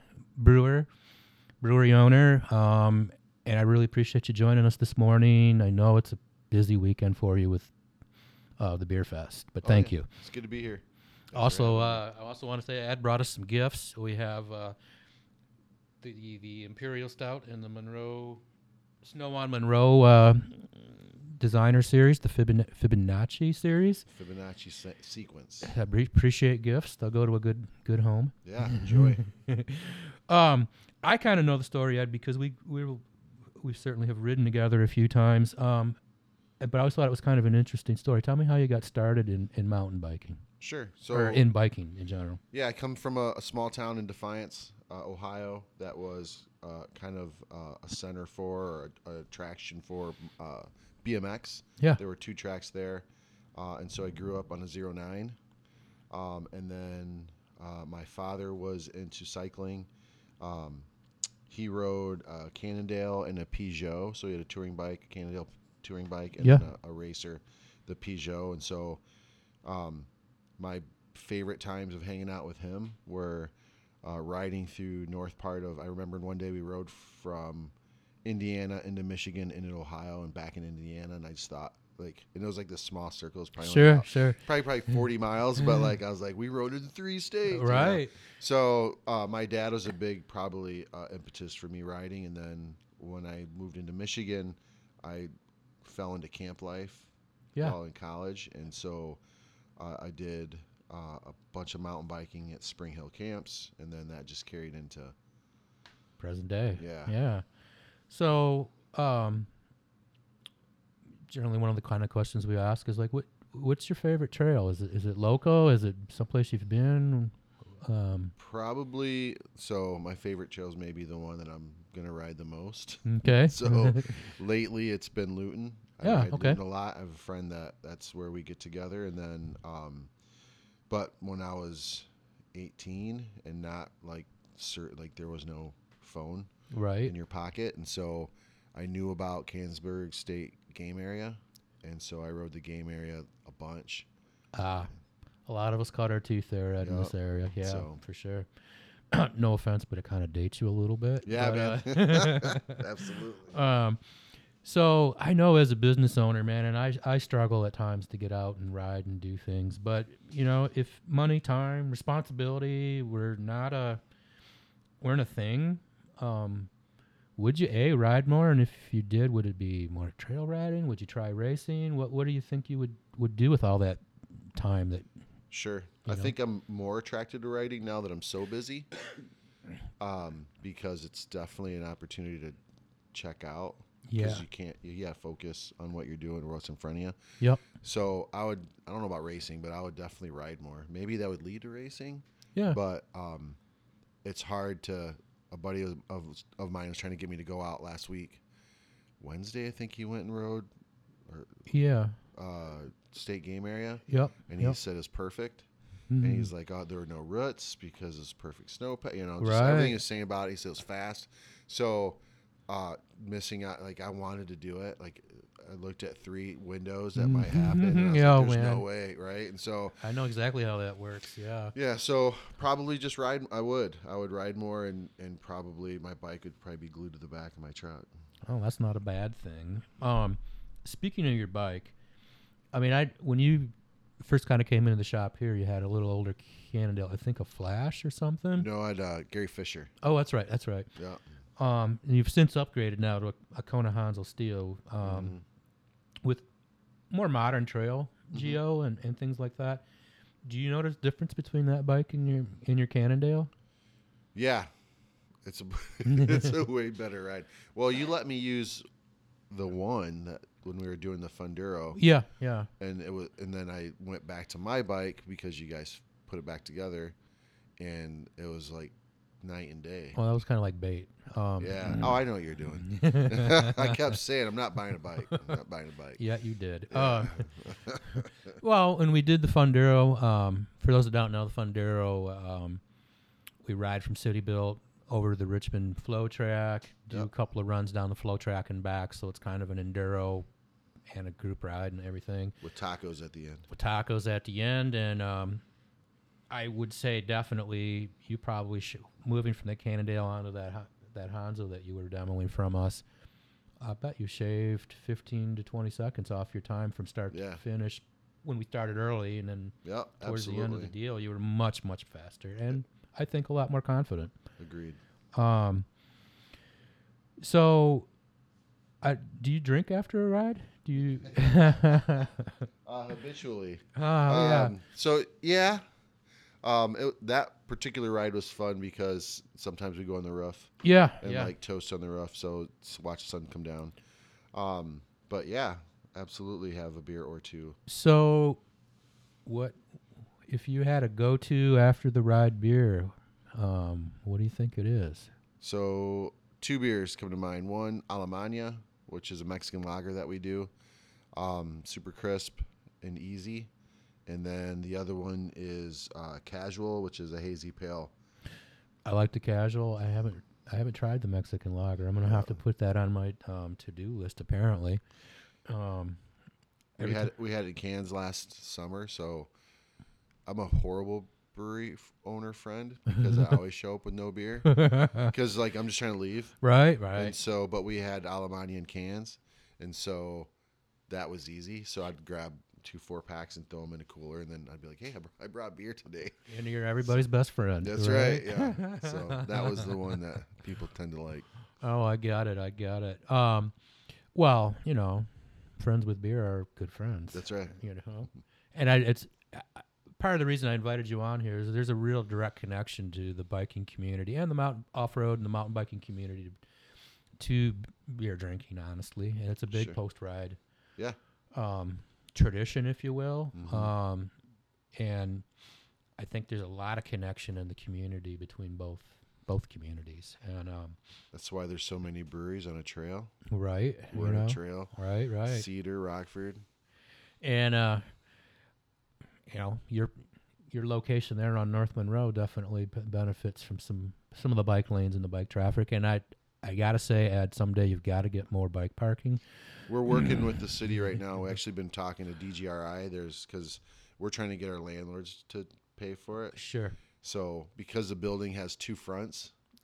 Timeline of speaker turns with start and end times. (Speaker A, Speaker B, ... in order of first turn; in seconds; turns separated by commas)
Speaker A: 0.4-0.9, Speaker A: 1.6-7.7, Speaker A: 8.6-10.1, Speaker B: 9.6-12.0, Speaker A: 11.3-14.8, Speaker A: 16.0-18.4, Speaker A: 19.0-24.1, Speaker B: 24.1-25.7, Speaker A: 25.6-36.0, Speaker B: 28.4-29.2, Speaker A: 36.6-40.4, Speaker B: 40.6-41.5, Speaker A: 41.1-42.4, Speaker B: 42.5-55.4, Speaker B: 56.1-59.9, Speaker B: 60.4-60.9, Speaker B: 61.5-69.0, Speaker B: 69.6-70.1, Speaker B: 70.6-77.7, Speaker B: 78.2-95.3, Speaker A: 83.6-84.4, Speaker A: 87.5-88.2, Speaker B: 95.8-99.2, Speaker B: 99.8-105.1, Speaker A: 106.2-107.4, Speaker B: 106.8-107.1, Speaker A: 108.1-109.5, Speaker A: 111.3-118.3, Speaker B: 118.4-130.1, Speaker A: 123.0-124.3, Speaker A: 126.0-126.6, Speaker B: 130.9-136.5, Speaker A: 136.7-137.2, Speaker B: 137.1-144.1, Speaker A: 144.5-144.9, Speaker A: 145.5-148.5, Speaker B: 146.8-148.0, Speaker A: 149.1-152.8, Speaker B: 151.2-153.6, Speaker A: 153.5-154.0, Speaker A: 154.6-164.0, Speaker A: 165.0-166.7, Speaker A: 167.4-174.0, Speaker A: 174.5-175.1, Speaker B: 175.5-178.9, Speaker A: 176.1-176.3, Speaker B: 180.0-182.6, Speaker B: 183.1-193.6, Speaker A: 184.1-184.4, Speaker B: 194.2-198.4, Speaker B: 199.2-200.7, Speaker B: 201.3-201.7, Speaker A: 201.7-202.2, Speaker B: 202.3-205.7, Speaker A: 204.1-204.8, Speaker A: 206.1-206.5, Speaker B: 206.2-220.0, Speaker A: 209.4-210.0, Speaker A: 217.2-218.8, Speaker A: 220.0-221.8, Speaker B: 221.7-228.1, Speaker A: 228.4-231.9, Speaker A: 232.7-238.7, Speaker B: 238.6-239.9, Speaker A: 240.0-240.9, Speaker B: 241.0-241.2, Speaker A: 241.6-245.3, Speaker B: 245.0-245.4, Speaker A: 247.1-249.8, Speaker B: 248.3-248.6, Speaker A: 250.4-253.5, Speaker B: 254.3-254.7, Speaker B: 255.4-258.8, Speaker A: 256.1-256.5, Speaker B: 259.5-262.0, Speaker A: 261.9-262.7, Speaker B: 262.8-267.1, Speaker B: 267.8-270.2, Speaker A: 270.1-272.2, Speaker B: 271.6-276.2, Speaker A: 272.7-274.2, Speaker A: 275.3-275.6, Speaker A: 276.2-277.5, Speaker B: 276.9-278.3, Speaker A: 278.6-282.8, Speaker A: 283.6-290.4, Speaker A: 291.1-292.6, Speaker B: 292.6-293.7, Speaker A: 293.7-295.6, Speaker A: 296.5-303.0, Speaker A: 303.8-314.3, Speaker B: 307.3-307.6, Speaker B: 309.8-310.9, Speaker B: 314.6-315.0, Speaker A: 315.3-315.9, Speaker A: 317.4-318.1, Speaker A: 319.0-322.6, Speaker B: 321.6-322.0, Speaker B: 322.8-325.8, Speaker A: 323.9-324.7, Speaker B: 326.6-333.9, Speaker A: 330.8-331.5, Speaker B: 334.5-337.8, Speaker A: 337.9-338.6, Speaker A: 339.4-339.8, Speaker A: 340.5-345.3, Speaker B: 345.6-350.7, Speaker B: 351.3-353.7, Speaker B: 354.3-358.1, Speaker A: 359.0-365.0, Speaker B: 362.2-362.6, Speaker A: 365.7-366.2, Speaker A: 367.0-367.3, Speaker B: 367.0-369.5, Speaker B: 370.4-376.5, Speaker A: 373.1-373.6, Speaker A: 374.6-375.3, Speaker A: 376.6-377.3, Speaker B: 377.1-380.5, Speaker B: 381.1-386.5, Speaker A: 386.5-390.1, Speaker B: 387.8-391.4, Speaker A: 391.8-393.7, Speaker A: 394.3-406.6, Speaker B: 397.3-397.8, Speaker A: 407.4-410.6, Speaker B: 409.7-410.0, Speaker A: 411.5-414.3, Speaker B: 413.5-413.9, Speaker A: 414.9-415.4, Speaker A: 416.2-421.0, Speaker B: 421.3-423.3, Speaker A: 423.5-425.6, Speaker B: 424.1-424.9, Speaker B: 425.4-426.6, Speaker A: 427.4-428.0, Speaker A: 429.5-439.4, Speaker B: 439.9-446.6, Speaker A: 440.1-440.6, Speaker A: 446.5-447.0, Speaker B: 447.2-449.5